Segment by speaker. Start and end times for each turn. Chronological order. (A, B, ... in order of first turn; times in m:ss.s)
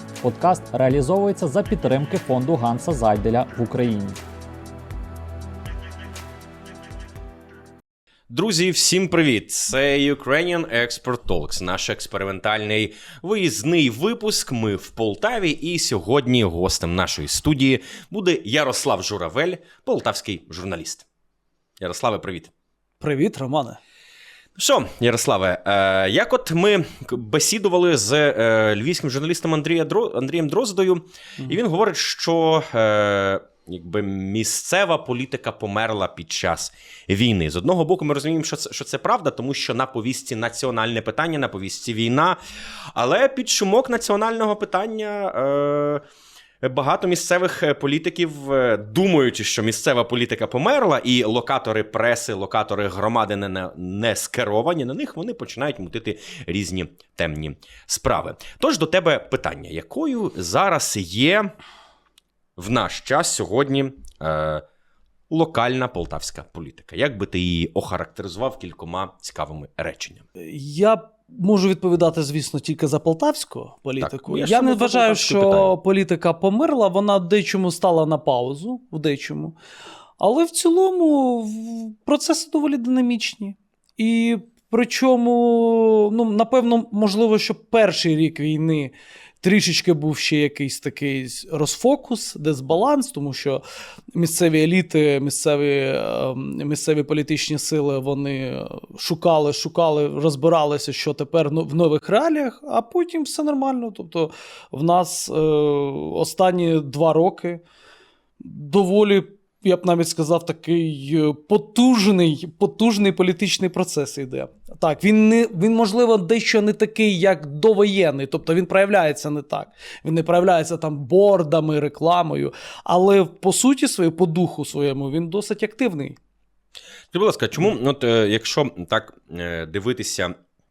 0:00.2-0:04.2 A
0:08.3-0:21.0 B
0:21.8-0:22.5 B
0:23.0-0:23.8 C
0:24.6-0:42.4 B
0:42.9-0:46.0 B
0:46.6-1:01.5 B
1:02.6-1:04.6 B
1:05.3-1:10.2 B
1:10.4-1:19.6 C
1:14.0-1:15.7 B
1:20.2-1:33.6 C
1:34.1-1:47.6 C
1:48.4-2:06.2 C
2:07.1-2:10.3 B